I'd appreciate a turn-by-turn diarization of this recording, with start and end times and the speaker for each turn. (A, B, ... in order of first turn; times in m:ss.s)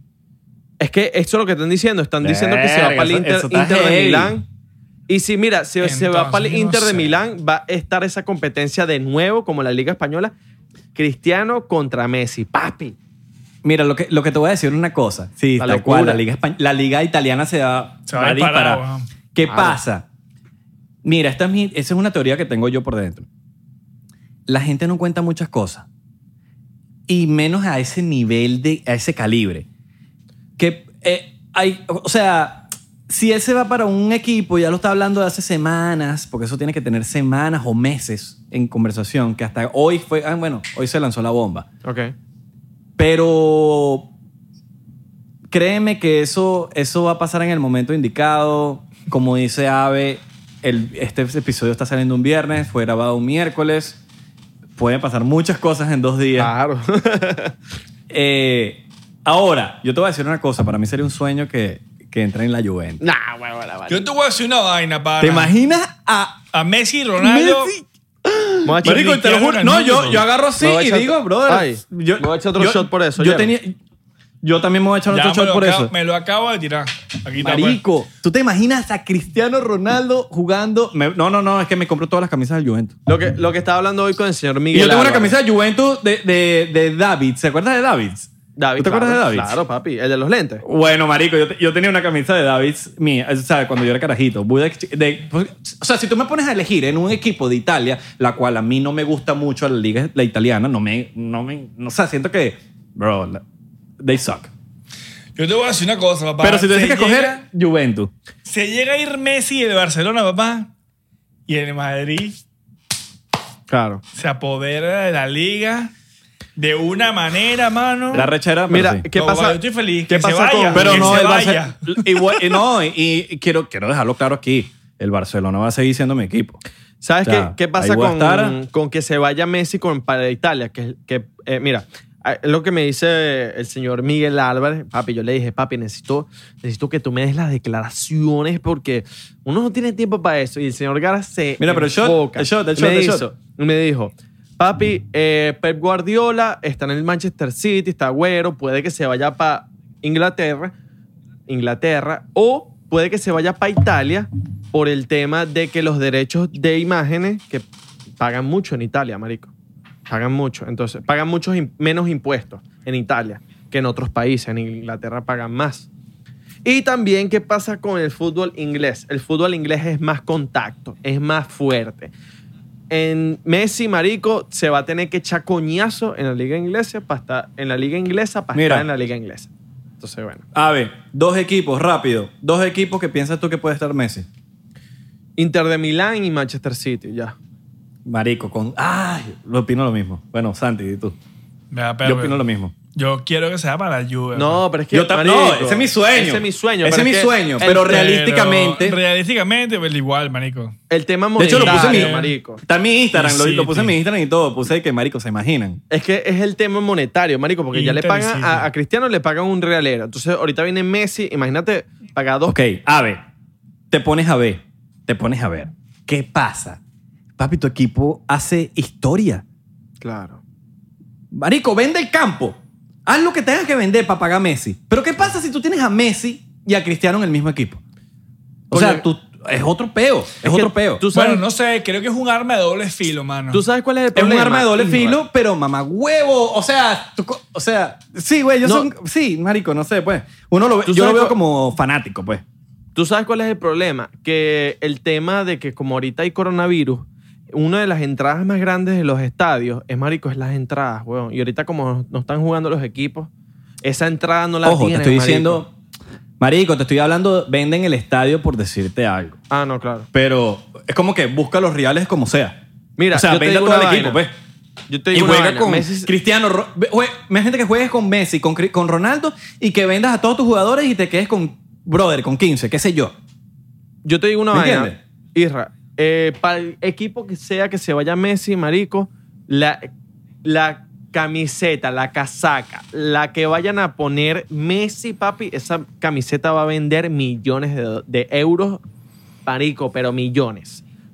0:00.8-0:04.4 A
0:02.2-0:04.4 B
0:05.1-0:10.3 A
0:05.8-0:07.2 C
0:10.9-0:13.0 A
0:13.6-0:18.8 B
0:15.6-0:16.2 A
0:18.1-0:19.1 C
0:19.3-0:20.0 B
0:19.5-0:19.8 A
0:21.0-0:23.3 B
0:24.5-0:25.8 B
0:27.1-0:29.6 B
0:30.6-0:41.6 B
0:41.8-0:42.1 A
0:43.0-0:44.1 B
0:45.5-0:54.0 B
0:54.8-0:56.5 B
0:56.4-0:57.6 A
0:58.1-1:03.0 B
1:03.0-1:04.0 A
1:03.9-1:05.5 C
1:05.2-1:06.4 B
1:06.5-1:07.7 C
1:07.2-1:13.8 B
1:08.6-1:09.2 A
1:08.8-1:10.2 C
1:10.6-1:13.5 A
1:14.4-1:15.9 B
1:15.1-1:17.8 C
1:17.4-1:22.9 B
1:23.1-1:25.4 A
1:24.7-1:29.5 B
1:28.6-1:30.6 A
1:30.6-1:43.4 B
1:44.0-1:44.5 B
1:45.4-1:47.4 C
1:46.4-1:48.1 B
1:48.4-1:50.7 C
1:51.5-1:52.4 C
1:53.7-1:54.0 A
1:54.1-1:55.9 C
1:56.6-1:58.3 C
1:58.1-1:59.0 B
1:58.7-2:01.2 A
1:59.1-2:02.6 C
2:00.7-2:06.6 B
2:07.0-2:30.7 A
2:07.2-2:08.6 B
2:21.6-2:23.2 B
2:31.5-2:37.7 A
2:38.2-2:39.5 A
2:40.1-2:45.9 A
2:46.6-2:52.1 A
2:52.9-3:00.4 A
2:58.5-2:58.9 B
3:00.5-3:04.3 B
3:05.4-3:07.4 A
3:08.0-3:11.2 B
3:11.7-3:12.4 C
3:12.0-3:12.7 B
3:12.9-3:14.6 C
3:14.3-3:17.9 A
3:14.9-3:19.0 B
3:17.6-3:20.8 C
3:20.9-3:22.6 A
3:21.4-3:25.8 B
3:21.5-3:22.3 C
3:23.1-3:23.9 C
3:25.9-3:32.6 A
3:27.7-3:28.7 C
3:32.5-3:33.2 B
3:33.9-3:36.8 B
3:37.4-3:39.4 B
3:40.0-3:40.4 A
3:41.3-3:47.8 B
3:48.7-3:49.0 A
3:48.7-3:51.0 B
3:50.4-3:51.4 A
3:51.1-3:53.6 C
3:53.5-3:55.2 A
3:54.1-4:02.4 B
3:58.6-3:58.9 A
4:00.8-4:01.4 A
4:02.9-4:13.3 A
4:13.8-4:15.6 A
4:14.6-4:15.7 B
4:16.4-4:19.4 B
4:19.5-4:20.1 A
4:20.1-4:22.6 B
4:23.0-4:24.2 A
4:23.1-4:24.3 B
4:24.9-4:26.1 A
4:25.1-4:33.1 B
4:34.0-4:39.9 A
4:34.5-4:35.0 B
4:40.4-4:48.8 A
4:49.4-4:50.8 A